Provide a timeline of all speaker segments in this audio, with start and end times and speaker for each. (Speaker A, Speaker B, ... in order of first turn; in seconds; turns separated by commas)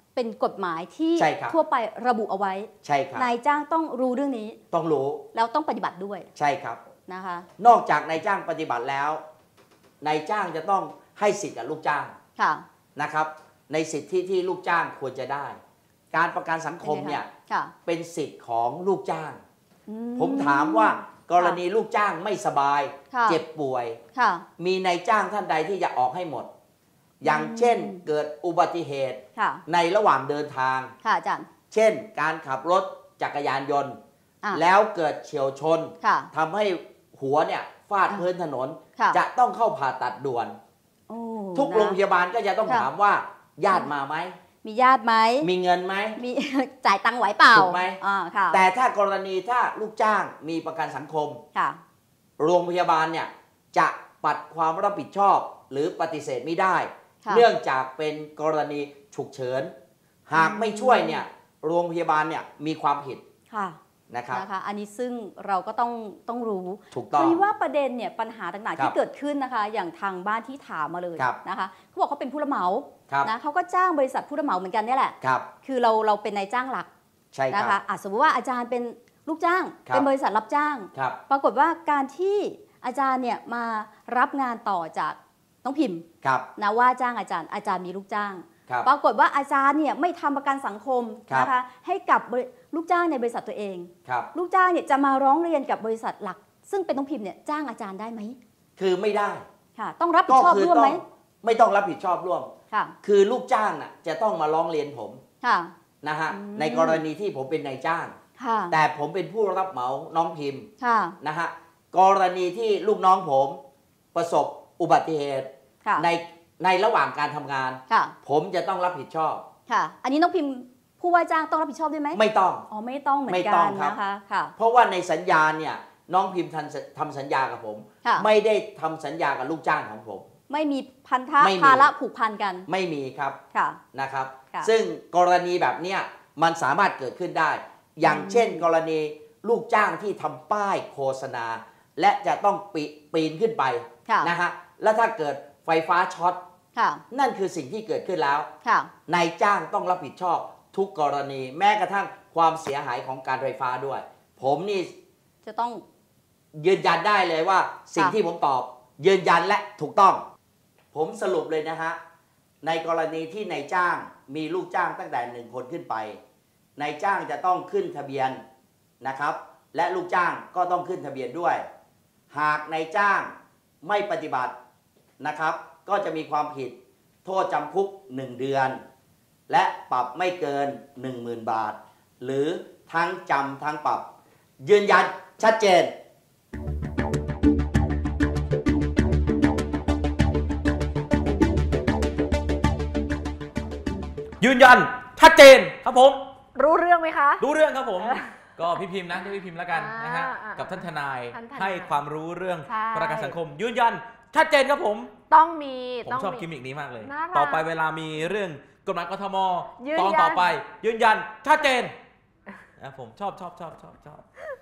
Speaker A: 0.1-4.6, Speaker B: 1.1-1.6, Speaker B: 2.8-3.3, Speaker B: 4.7-5.2, Speaker A: 5.3-6.3, Speaker B: 6.3-6.8, Speaker A: 7.1-7.5, Speaker B: 7.6-9.2, Speaker B: 10.0-12.1, Speaker A: 12.4-12.7, Speaker B: 12.9-15.6, Speaker B: 16.1-17.3, Speaker A: 16.8-17.7, Speaker B: 17.9-19.4, Speaker A: 19.9-21.6, Speaker B: 20.1-24.0, Speaker A: 23.1-23.4, Speaker A: 24.1-24.4, Speaker B: 24.6-26.5, Speaker A: 27.2-28.0, Speaker B: 27.2-30.9, Speaker A: 29.4-29.6, Speaker A: 31.0-31.5, Speaker B: 31.7-34.0, Speaker B: 34.5-40.6, Speaker A: 36.0-36.3, Speaker A: 41.1-42.0, Speaker B: 41.5-44.4, Speaker A: 44.6-45.5, Speaker B: 45.4-46.2, Speaker A: 46.2-48.6, Speaker B: 47.5-48.0, Speaker B: 48.5-51.4, Speaker A: 51.5-51.8, Speaker B: 52.4-59.7, Speaker B: 60.3-63.2, Speaker A: 60.4-61.2, Speaker A: 63.5-63.8, Speaker B: 64.1-64.4, Speaker A: 64.3-76.9, Speaker B: 66.9-67.4, Speaker B: 75.2-75.5, Speaker B: 77.3-77.8, Speaker A: 77.5-86.0, Speaker B: 86.2-86.5, Speaker A: 86.6-98.4, Speaker B: 98.8-99.4, Speaker A: 99.8-101.0, Speaker B: 100.3-102.5, Speaker B: 103.0-105.2, Speaker A: 105.4-105.7, Speaker B: 106.0-108.1, Speaker A: 106.3-107.0, Speaker A: 108.4-108.8, Speaker B: 108.7-110.7, Speaker A: 110.8-111.2, Speaker B: 111.2-113.6, Speaker B: 114.1-119.4, Speaker A: 117.9-118.1, Speaker A: 119.7-124.5, Speaker B: 122.1-122.7, Speaker B: 123.3-124.0, Speaker B: 124.6-130.3, Speaker A: 130.5-132.7, Speaker B: 131.4-131.9, Speaker B: 132.7-133.4, Speaker A: 133.5-133.8, Speaker B: 133.9-146.4, Speaker A: 138.0-138.6, Speaker A: 144.1-144.3, Speaker A: 146.8-147.0, Speaker B: 147.1-148.5, Speaker A: 148.6-148.9, Speaker B: 149.1-154.9, Speaker A: 155.4-155.8, Speaker B: 156.5-160.2, Speaker B: 160.9-162.0, Speaker B: 162.6-166.2, Speaker B: 166.8-168.4, Speaker B: 169.0-171.7, Speaker B: 172.3-174.5, Speaker B: 175.2-178.8, Speaker B: 179.5-184.1, Speaker B: 184.6-185.9, Speaker C: 194.4-196.2, Speaker D: 196.5-197.4, Speaker C: 197.4-205.1, Speaker D: 198.0-198.3, Speaker D: 199.7-201.9, Speaker D: 202.6-203.4, Speaker D: 205.3-206.5, Speaker C: 206.1-211.9, Speaker D: 207.0-207.7, Speaker D: 209.8-210.5, Speaker C: 212.8-214.2